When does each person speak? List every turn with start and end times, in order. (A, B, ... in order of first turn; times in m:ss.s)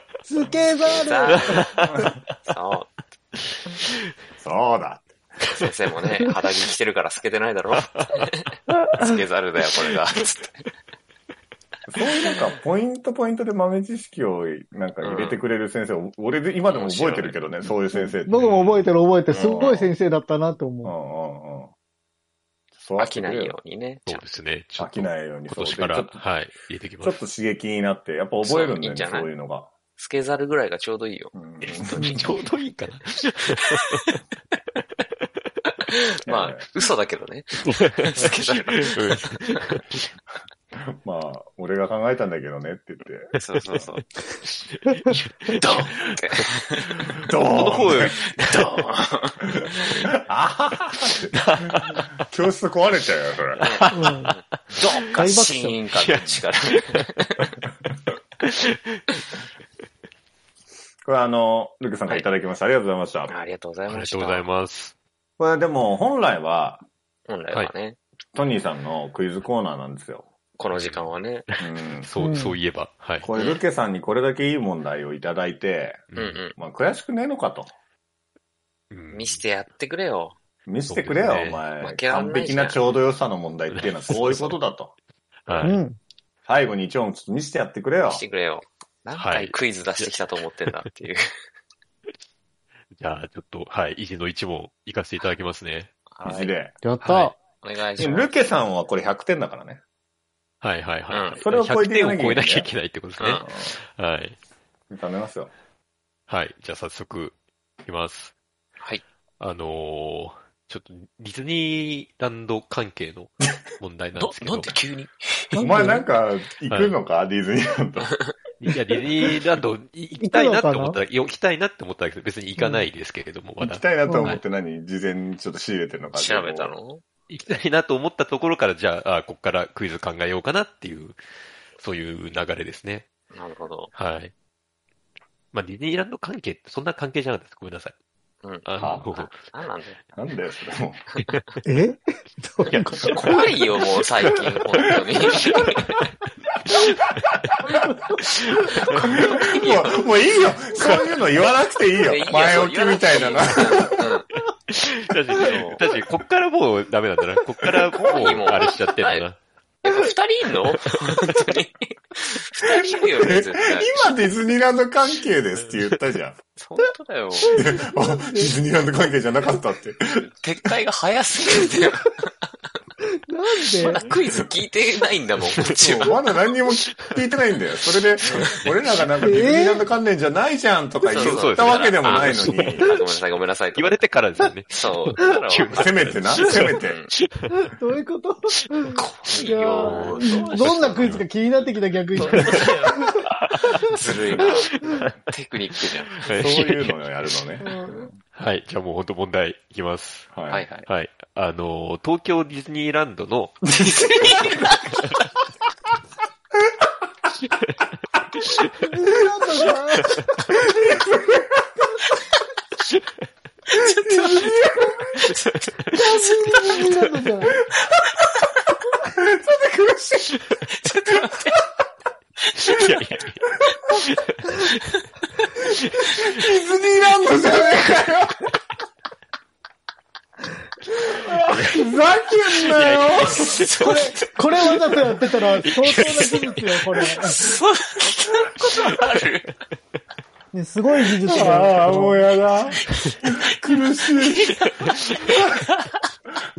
0:00.2-0:01.8 A
0:00.4-0:00.6 B
0:00.8-0:01.8 C
0:01.6-0:02.1 D
0:02.4-0:03.0 C
0:04.4-0:05.1 B
0:05.5-0:10.6 C
0:11.9-0:18.4 B
0:12.2-0:12.5 C
0:15.0-0:15.4 C
0:16.7-0:17.4 C
0:17.9-0:20.9 A
0:18.3-0:18.9 D
0:19.3-0:19.7 C
0:19.3-0:19.9 B
0:20.8-0:21.7 B
0:22.8-0:23.6 B
0:23.0-0:24.2 C
0:24.0-0:27.2 D
0:24.8-0:26.2 B
0:27.0-0:29.7 B
0:28.4-0:29.3 C
0:30.0-0:32.3 C
0:31.3-0:32.2 B
0:31.9-0:34.0 D
0:35.9-0:39.7 C
0:36.2-0:36.7 B
0:37.7-0:40.0 D
0:40.8-0:43.8 B
0:43.4-0:44.1 C
0:44.4-0:48.7 D
0:45.5-0:46.9 C
0:47.2-0:48.2 B
0:48.4-0:49.6 C
0:49.7-0:50.1 D
0:49.7-0:53.7 B
0:51.3-0:52.1 D
0:53.6-0:57.5 C
0:53.9-0:54.3 A
0:55.1-0:55.8 A
0:56.0-0:57.0 D
1:01.0-1:03.3 B
1:03.3-1:04.5 C
1:03.9-1:04.9 D
1:05.4-1:06.8 B
1:07.3-1:08.0 C
1:08.3-1:10.3 B
1:10.6-1:11.4 C
1:10.7-1:13.3 D
1:11.6-1:12.1 B
1:12.2-1:12.6 A
1:13.2-1:17.7 B
1:13.3-1:13.6 C
1:16.1-1:16.4 D
1:16.1-1:16.5 C
1:18.9-1:19.4 D
1:19.1-1:20.4 C
1:20.6-1:24.9 B
1:20.8-1:21.6 D
1:21.8-1:22.8 C
1:23.7-1:24.6 D
1:25.4-1:25.8 D
1:25.6-1:26.0 A
1:26.4-1:28.2 B
1:28.0-1:31.3 C
1:29.2-1:30.1 D
1:33.0-1:35.9 D
1:36.1-1:36.6 C
1:36.2-1:36.8 B
1:36.8-1:37.3 A
1:37.0-1:37.3 D
1:37.2-1:38.4 C
1:38.0-1:39.8 B
1:40.6-1:44.4 D
1:41.1-1:41.4 C
1:41.4-1:42.7 B
1:43.2-1:43.4 C
1:43.4-1:43.7 B
1:44.9-1:45.5 B
1:46.3-1:48.3 D
1:49.4-1:54.7 D
1:54.1-1:55.6 C
1:55.5-1:56.1 A
1:55.6-1:58.2 B
1:56.7-1:57.0 D
1:58.6-2:04.4 D
2:00.2-2:01.0 A
2:03.6-2:06.7 B
2:04.0-2:04.4 A
2:06.1-2:07.0 C
2:07.3-2:11.2 D
2:11.8-2:13.1 D
2:13.3-2:13.9 C
2:13.9-2:14.3 D
2:15.5-2:17.9 D
2:18.4-2:20.0 C
2:18.6-2:19.4 D
2:18.8-2:19.0 B
2:20.1-2:21.1 B
2:21.6-2:23.4 A
2:22.6-2:23.4 D
2:23.1-2:25.8 C
2:25.3-2:26.1 D
2:26.7-2:27.3 D
2:27.5-2:27.8 B
2:28.4-2:29.0 D
2:28.9-2:30.1 C
2:28.9-2:34.2 B
2:32.0-2:34.3 C
2:34.7-2:39.4 D
2:35.3-2:35.9 C
2:37.9-2:38.4 B
2:38.0-2:39.3 C
2:39.8-2:44.2 C
2:42.7-2:46.4 B
2:46.6-2:47.6 C
2:47.4-2:48.5 A
2:47.5-2:50.3 B
2:50.2-2:52.3 C
2:53.3-2:54.0 A
2:53.7-2:56.2 C
2:55.5-2:55.9 D
2:55.8-3:02.9 B
2:58.2-2:58.6 C
2:58.2-2:58.7 D
2:59.2-2:59.8 A
3:01.0-3:04.0 C
3:01.1-3:02.9 D
3:03.7-3:07.5 D
3:04.7-3:07.1 C
3:05.7-3:07.0 B
3:07.5-3:13.2 A
3:08.9-3:16.3 C
3:09.3-3:11.2 D
3:12.3-3:12.7 D
3:13.3-3:13.8 D
3:14.4-3:15.1 D
3:16.2-3:17.0 D
3:16.2-3:18.1 B
3:17.6-3:18.1 A
3:18.3-3:20.3 D
3:20.3-3:20.6 B
3:20.5-3:20.9 C
3:20.8-3:23.6 D
3:23.7-3:24.9 C
3:28.8-3:30.6 A
3:30.5-3:31.5 B
3:33.7-3:37.0 C
3:34.0-3:35.2 B
3:35.9-3:37.6 A
3:39.0-3:40.4 B
3:40.7-3:41.6 C
3:42.5-3:44.7 D
3:46.0-3:48.5 B
3:51.1-3:53.6 B
3:51.5-3:51.8 D
3:52.6-3:54.2 D
3:53.2-3:55.0 C
3:53.8-3:57.4 A
3:55.6-3:57.0 D
3:57.0-3:59.5 C
4:00.5-4:02.3 A
4:01.2-4:04.5 B
4:01.4-4:01.6 C
4:03.6-4:05.9 C